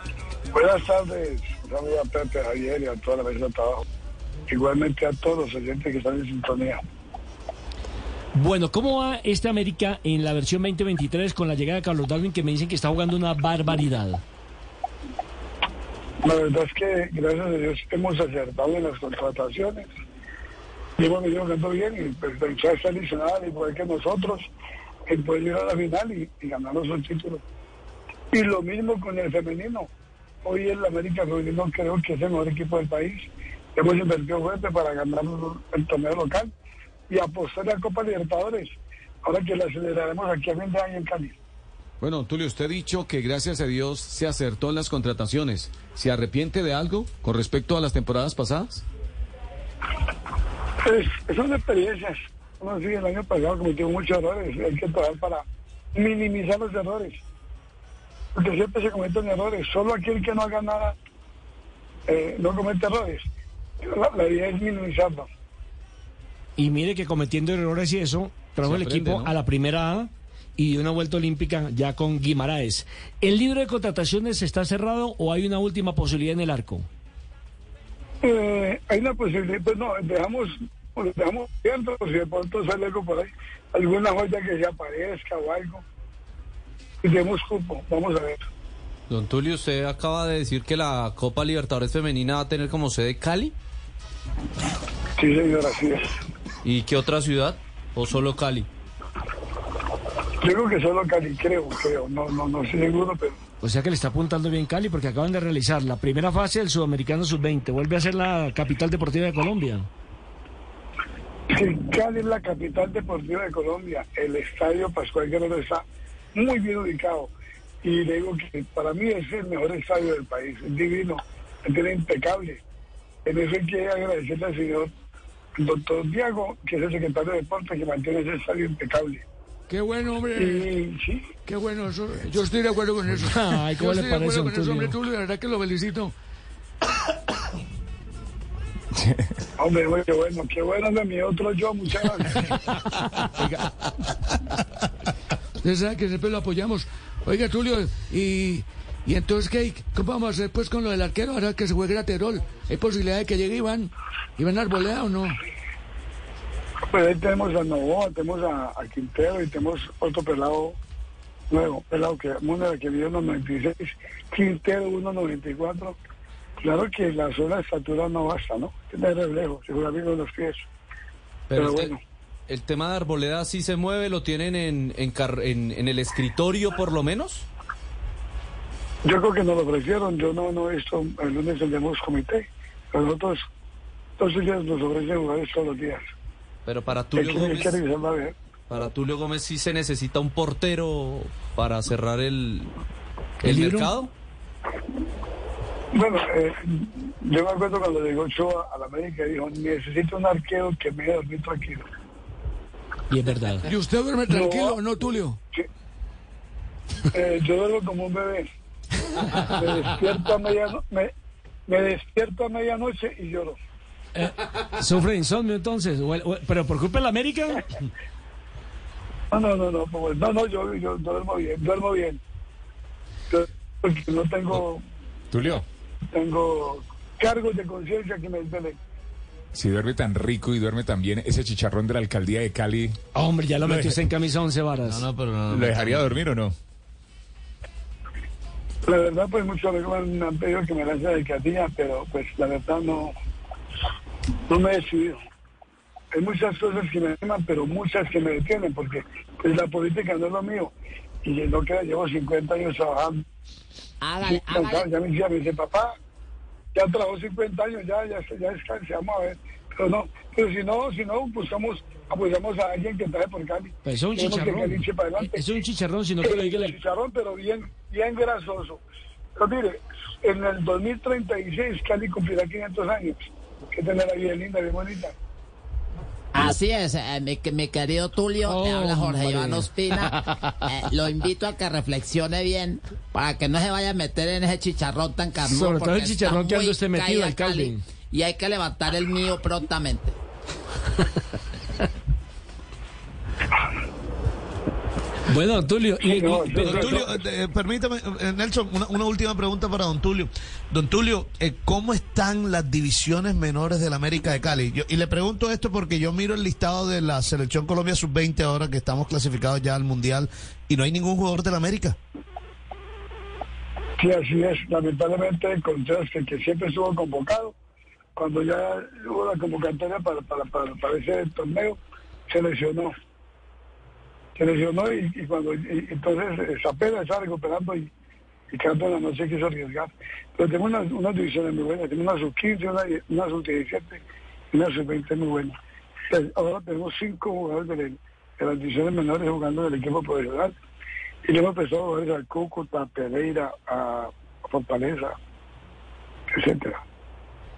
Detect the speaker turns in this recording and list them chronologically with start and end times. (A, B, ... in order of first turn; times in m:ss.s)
0:00.5-0:03.8 A
0:04.5-0:06.8 A
0:08.3-0:14.2 B
0:16.2-0:19.9 A
0:21.0-0:24.5 A
0:25.1-0:27.4 A
0:28.3-0:29.9 A
0:30.4-0:36.5 A
0:37.1-0:41.4 A
0:42.0-0:48.8 C
0:50.8-0:55.4 A
0:56.0-0:57.2 A
0:58.4-1:01.0 A
1:02.1-1:03.2 A
1:03.8-1:05.3 A
1:06.6-1:16.9 B
1:08.6-1:09.3 C
1:18.2-1:25.8 A
1:27.0-1:28.4 A
1:29.1-1:33.5 D
1:35.2-1:36.1 A
1:36.6-1:38.7 D
1:40.4-1:43.4 A
1:43.6-1:49.9 B
1:51.5-1:55.8 A
1:56.4-1:57.3 A
1:57.8-2:02.6 A
2:03.2-2:04.9 A
2:05.6-2:09.2 A
2:09.7-2:10.7 E
2:10.4-2:11.3 A
2:11.5-2:16.1 E
2:13.2-2:15.0 B
2:19.0-2:19.2 F
2:19.6-2:22.4 A
2:25.6-2:35.4 E
2:36.9-2:40.8 A
2:41.5-2:46.0 A
2:46.6-2:50.6 A
2:51.5-2:51.9 D
2:51.6-2:52.0 A
2:52.5-2:57.5 D
2:59.0-3:03.4 A
3:04.2-3:06.0 A
3:06.7-3:07.8 D
3:07.1-3:08.4 A
3:08.7-3:12.7 D
3:13.4-3:14.1 D
3:13.4-3:13.9 B
3:15.9-3:21.8 A
3:23.1-3:23.7 B
3:23.7-3:25.4 E
3:24.3-3:24.8 A
3:27.1-3:28.5 A
3:29.4-3:31.1 A
3:31.7-3:33.6 A
3:34.2-3:37.6 B
3:39.3-3:42.2 A
3:43.3-3:44.8 A
3:45.3-3:45.7 F
3:46.1-3:48.8 A
3:49.5-3:53.0 F
3:53.1-3:55.1 B
3:53.6-3:54.0 F
3:54.9-3:56.1 C
3:55.5-3:56.5 F
3:58.9-4:03.1 A
4:04.5-4:05.2 A
4:06.1-4:13.2 A
4:14.0-4:14.9 G
4:14.2-4:15.9 A
4:16.8-4:25.5 A
4:23.8-4:26.8 B
4:26.2-4:28.8 A
4:29.4-4:35.1 A
4:36.4-4:50.2 G
4:38.5-4:39.7 B
4:45.5-4:47.8 B
4:55.3-4:57.1 B
4:56.0-4:57.1 A
4:56.6-5:12.0 H
5:14.0-5:17.5 A
5:18.2-5:22.9 A
5:24.4-5:27.9 A
5:28.5-5:34.0 A
5:34.5-5:35.6 A
5:36.1-5:40.6 A
5:41.2-5:45.2 A
5:46.3-5:46.8 A